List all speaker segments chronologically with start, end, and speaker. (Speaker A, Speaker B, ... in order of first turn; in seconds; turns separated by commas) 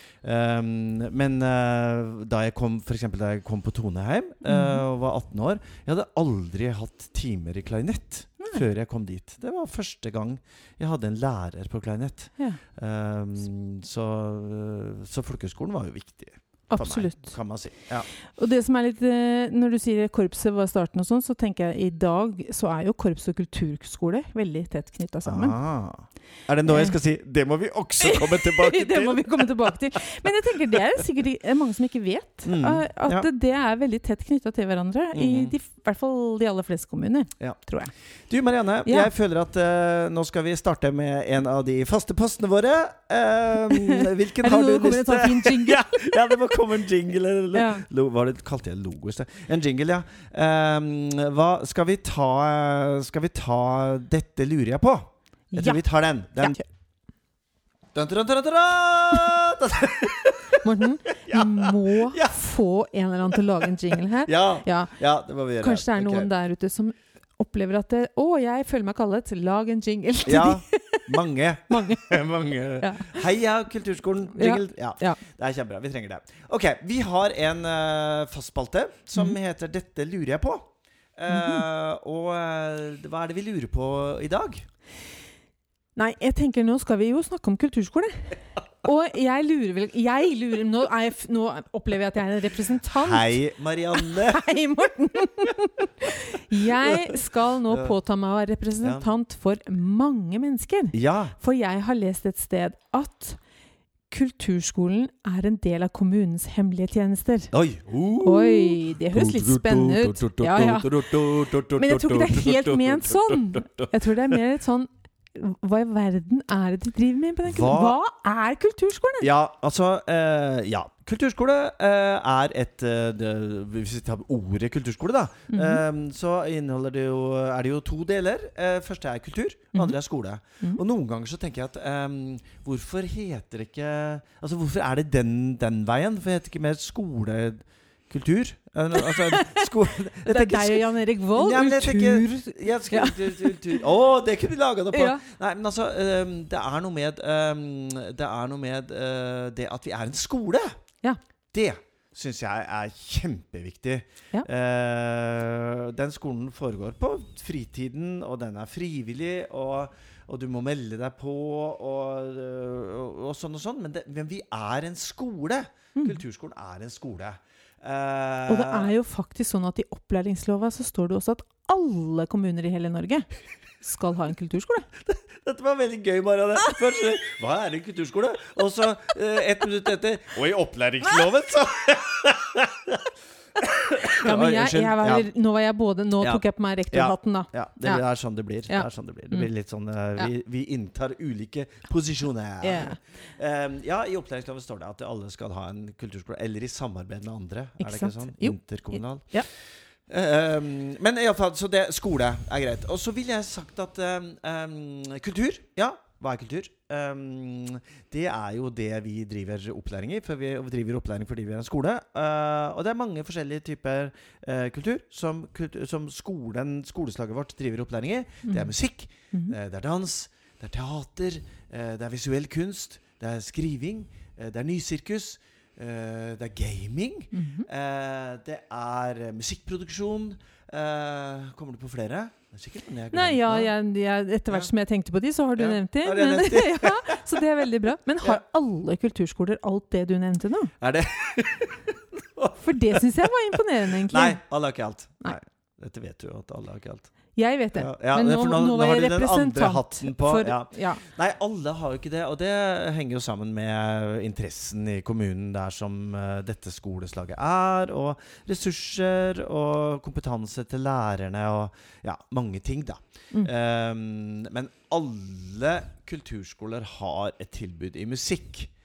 Speaker A: 0.2-18.1, Speaker B: 4.5-4.8, Speaker B: 16.7-17.3, Speaker B: 18.4-25.5, Speaker A: 25.2-30.0, Speaker B: 26.6-27.0, Speaker B: 28.0-37.9, Speaker A: 32.4-33.3, Speaker A: 35.1-35.5, Speaker A: 38.3-56.6, Speaker B: 38.9-39.1, Speaker B: 43.7-46.4, Speaker B: 47.5-47.8, Speaker B: 55.5-55.8, Speaker B: 56.4-56.6, Speaker A: 57.9-62.4, Speaker B: 60.6-64.9, Speaker A: 64.2-66.3, Speaker B: 65.6-72.2, Speaker A: 70.2-84.7, Speaker B: 72.8-73.2, Speaker B: 74.3-75.2, Speaker B: 81.3-81.6, Speaker B: 86.0-93.4, Speaker A: 92.9-94.5, Speaker B: 93.9-103.4, Speaker A: 96.8-97.9, Speaker A: 100.9-101.3, Speaker B: 104.1-107.5, Speaker A: 107.5-114.4, Speaker B: 108.2-119.3, Speaker A: 117.4-118.0, Speaker A: 119.2-150.8, Speaker B: 125.5-125.8, Speaker B: 138.9-139.7, Speaker B: 140.2-143.8, Speaker B: 144.9-145.2, Speaker A: 151.5-168.9, Speaker B: 165.9-166.2, Speaker B: 168.5-173.3, Speaker B: 173.8-174.9, Speaker A: 175.1-185.3, Speaker B: 184.1-188.0, Speaker A: 186.2-199.3, Speaker B: 188.7-189.5, Speaker B: 192.6-193.0, Speaker B: 197.8-199.5, Speaker A: 200.1-233.7, Speaker B: 218.4-218.7, Speaker B: 227.3-227.7, Speaker B: 233.1-240.7, Speaker A: 235.6-237.3, Speaker A: 240.8-243.2, Speaker B: 242.6-244.4, Speaker A: 244.1-247.1, Speaker B: 247.3-251.0, Speaker A: 247.7-268.7